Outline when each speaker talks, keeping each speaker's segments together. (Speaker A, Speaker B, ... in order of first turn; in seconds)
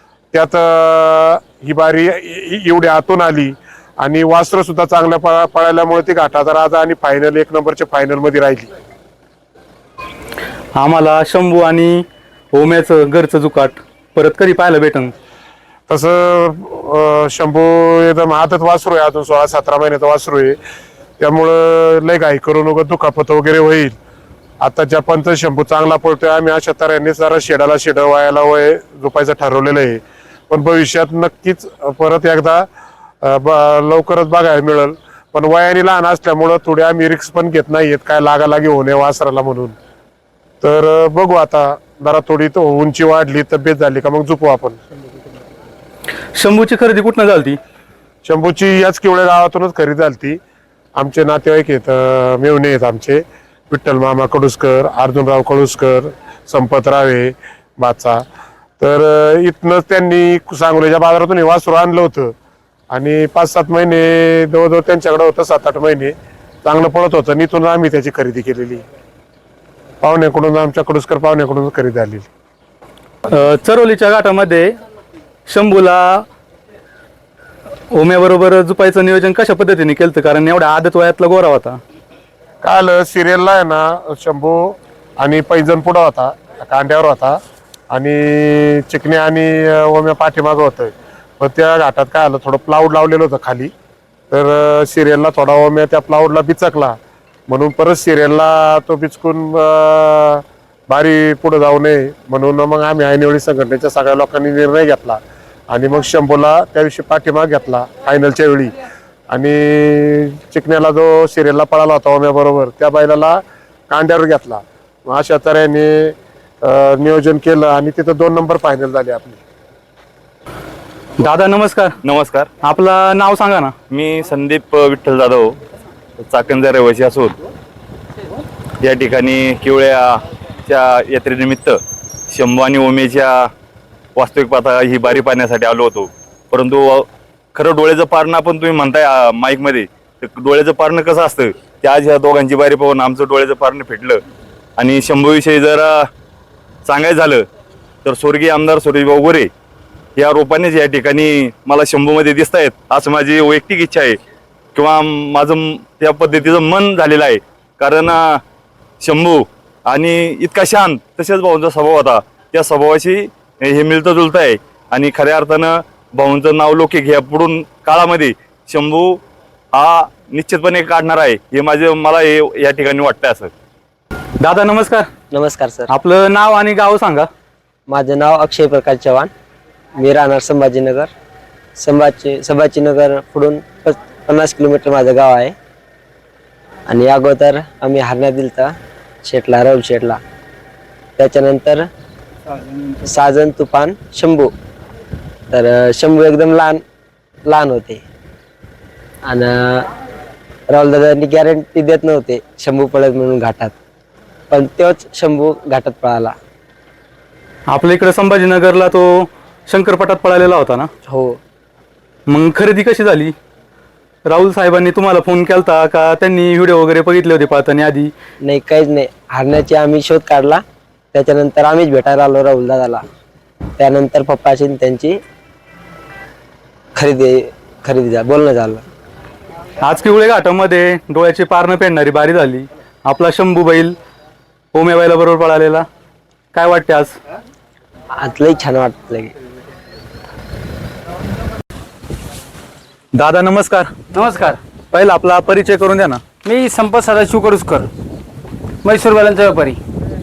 Speaker A: 0.3-8.7, 15.9-20.6, 21.2-23.9, 24.6-32.7, 33.2-39.8, 40.6-44.8, 48.2-50.4, 50.9-58.2, 58.8-62.3, 62.9-68.8, 70.0-72.3, 82.6-87.3, 87.9-93.7, 94.3-97.0, 97.5-108.7, 109.3-119.4
Speaker B: 10.7-15.1, 46.4-47.6, 73.3-74.7, 75.5-76.2, 77.9-81.8, 121.2-122.0, 122.6-123.7, 174.4-175.1, 175.9-177.3, 207.7-210.9, 212.3-213.3, 214.3-218.1, 229.8-233.9, 234.7-235.8, 236.5-237.1, 243.1-243.9, 244.9-246.2
Speaker C: 122.0-122.5, 123.9-125.5, 126.2-127.4, 128.8-131.8, 132.3-133.5, 134.2-144.2, 144.8-146.1, 146.8-147.5, 148.0-149.5, 150.2-154.2, 154.7-158.4, 159.0-169.2, 169.7-173.5
Speaker D: 175.3-175.9, 177.9-179.3, 179.9-181.1, 181.8-185.5, 186.9-188.7, 189.2-190.2, 191.2-191.8, 193.0-194.5, 195.5-196.8, 197.4-198.0, 199.2-199.8, 200.7-203.7, 204.5-206.3, 211.1-211.4, 218.4-223.0, 223.8-225.2, 226.9-228.8, 238.1-239.3
Speaker E: 244.1-244.6, 246.4-247.9, 248.8-249.8